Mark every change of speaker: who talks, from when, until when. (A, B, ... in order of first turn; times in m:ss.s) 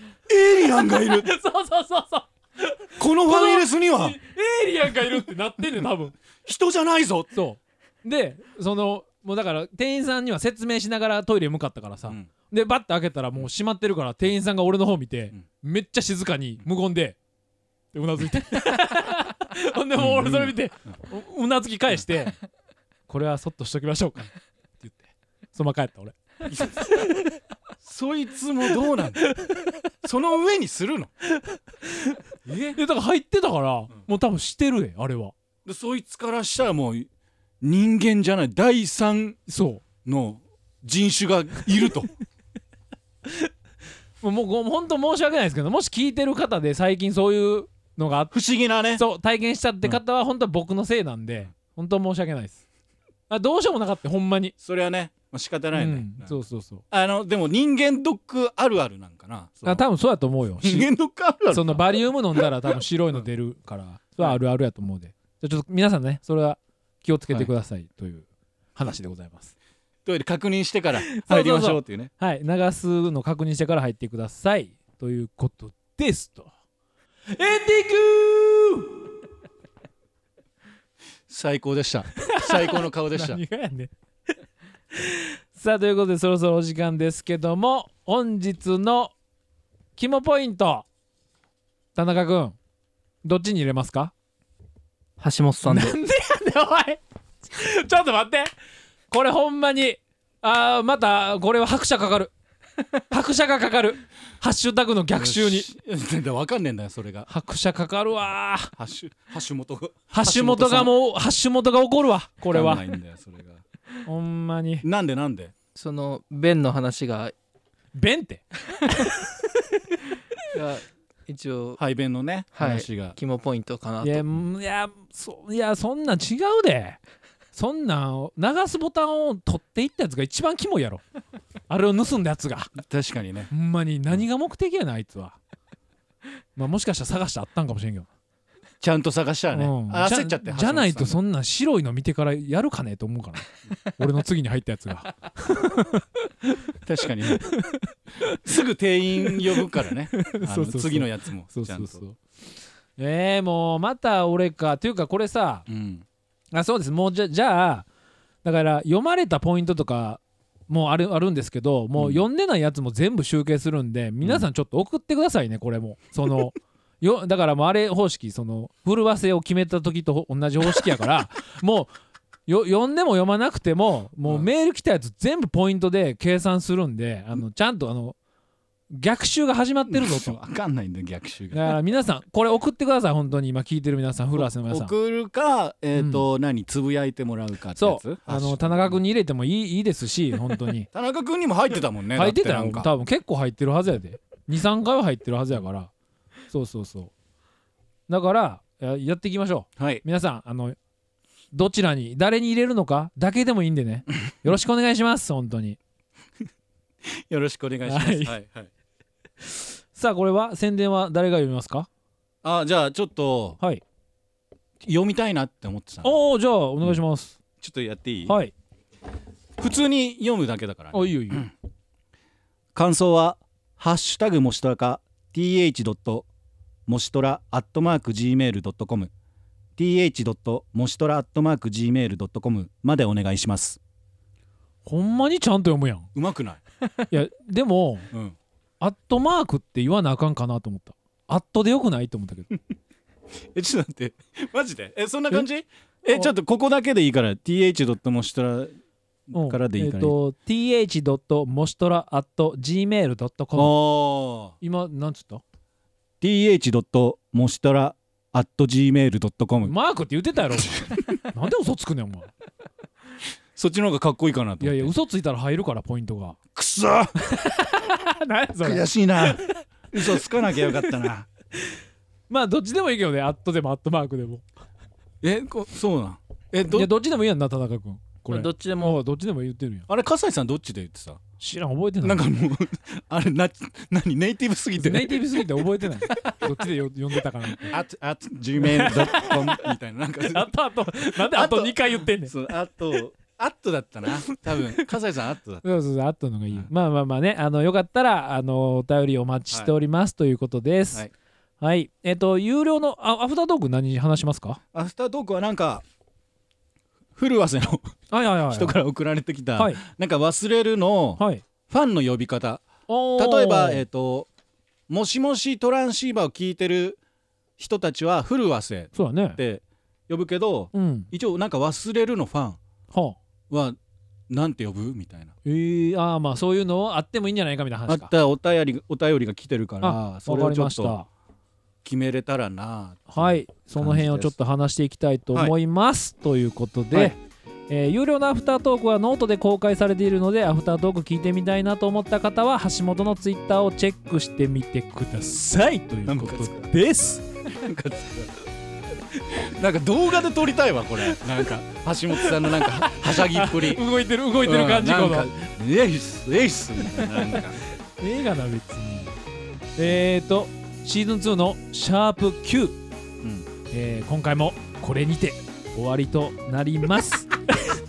0:00.3-0:01.3 A
0:00.9-0:06.2 B
0:03.0-0:04.2 A
0:06.4-0:07.3 A
0:07.3-0:17.2 B
0:17.9-0:22.4 B
0:20.0-0:20.6 A
0:23.1-0:27.3 B
0:26.5-0:27.1 A
0:27.8-0:29.2 A
0:29.2-0:29.8 B
0:30.0-0:31.1 A
0:31.3-0:32.2 B
0:32.4-0:32.8 A
0:32.8-0:35.3 B
0:35.6-0:37.1 A
0:37.6-0:39.4 A
0:39.5-0:39.8 B
0:40.0-0:42.1 A
0:44.2-0:48.3 B
0:48.3-0:49.0 A
0:49.0-0:52.6 B
0:53.3-0:54.5 B
0:54.6-0:56.3 A
0:55.7-0:56.8 B
0:56.9-0:59.8 A
0:59.7-1:00.9 B
1:00.6-1:02.5 A
1:01.5-1:09.5 B
1:10.0-1:12.1 A
1:11.0-1:16.5 B
1:17.3-1:18.9 B
1:21.3-1:23.4 A
1:22.2-1:23.9 B
1:25.0-1:29.1 B
1:30.0-1:30.9 B
1:32.0-1:32.6 B
1:33.2-1:34.1 B
1:35.2-1:36.0 C
1:35.6-1:38.5 B
1:39.1-1:42.3 B
1:43.1-1:45.7 B
1:45.2-1:47.3 A
1:47.3-1:48.7 B
1:48.8-1:50.9 A
1:50.1-1:52.8 B
1:52.5-1:53.6 A
1:54.0-1:54.8 B
1:54.8-1:55.5 A
1:55.8-1:57.3 C
1:58.0-1:59.4 B
2:00.5-2:01.8 C
2:01.8-2:03.2 A
2:02.6-2:04.2 C
2:04.0-2:07.0 B
2:07.5-2:11.0 B
2:11.7-2:12.8 B
2:12.8-2:13.5 A
2:13.5-2:15.4 B
2:16.6-2:18.1 B
2:18.8-2:21.2 A
2:19.6-2:26.7 B
2:26.8-2:27.5 A
2:27.3-2:28.4 B
2:28.3-2:32.0 A
2:29.2-2:32.2 B
2:33.0-2:35.7 B
2:35.7-2:36.1 A
2:36.5-2:37.9 B
2:38.4-2:51.9 B
2:42.0-2:42.2 A
2:52.5-2:58.2 B
2:54.2-2:54.5 A
2:58.9-3:00.4 B
2:59.9-3:01.8 A
3:01.5-3:04.9 B
3:04.4-3:09.0 A
3:06.0-3:06.2 B
3:07.8-3:10.9 B
3:10.9-3:12.9 A
3:12.2-3:15.9 B
3:16.5-3:17.1 B
3:18.1-3:20.8 B
3:19.8-3:20.0 A
3:21.5-3:25.8 B
3:27.0-3:28.7 A
3:27.9-3:28.4 B
3:29.4-3:31.9 B
3:32.4-3:33.6 A
3:34.8-3:36.2 A
3:36.0-3:37.4 B
3:37.6-3:38.4 A
3:38.3-3:38.5 B
3:39.6-3:41.5 A
3:40.9-3:41.5 B
3:42.7-3:46.3 A
3:46.9-3:49.1 A
3:49.8-3:53.8 A
3:54.8-3:56.1 B
3:56.1-3:56.6 A
3:57.1-3:58.1 B
3:58.8-4:02.5 B
4:03.5-4:08.7 A
4:09.3-4:10.2 A
4:09.3-4:13.8 B
4:13.6-4:14.6 A
4:14.6-4:15.4 B
4:16.2-4:19.7 A
4:19.6-4:22.3 B
4:20.6-4:21.0 A
4:23.6-4:24.9 A
4:24.6-4:26.4 B
4:26.6-4:27.2 A
4:27.2-4:30.5 B
4:28.6-4:31.3 A
4:32.3-4:34.4 B
4:35.2-4:36.9 A
4:36.7-4:39.9 B
4:38.4-4:38.9 C
4:39.9-4:41.2 A
4:41.4-4:42.3 B
4:42.0-4:45.2 A
4:44.8-4:47.8 B
4:47.7-4:50.5 A
4:48.6-4:49.7 B
4:50.2-4:52.3 B
4:51.1-4:55.6 A
4:55.6-5:01.1 B
5:01.6-5:04.6 B
5:04.7-5:05.8 A
5:07.2-5:07.9 A
5:08.1-5:08.8 B
5:08.5-5:12.7 A
5:09.6-5:09.8 B
5:11.2-5:11.4 B
5:12.9-5:13.8 B
5:13.2-5:14.3 A
5:14.9-5:17.0 A
5:17.6-5:22.6 A
5:18.9-5:19.4 B
5:20.7-5:21.1 B
5:22.9-5:23.2 B
5:23.5-5:23.8 A
5:24.3-5:25.3 A
5:25.4-5:28.1 B
5:27.9-5:31.0 A
5:29.8-5:31.1 B
5:31.8-5:34.4 A
5:33.1-5:37.2 B
5:37.7-5:47.2 B
5:46.1-5:46.7 A
5:47.5-5:48.4 A
5:49.1-5:53.8 A
5:52.3-5:55.3 B
5:54.4-5:57.6 A
5:57.1-5:57.4 B
5:58.0-5:59.1 B
5:59.8-6:02.8 B
6:03.2-6:03.5 A
6:03.7-6:07.3 B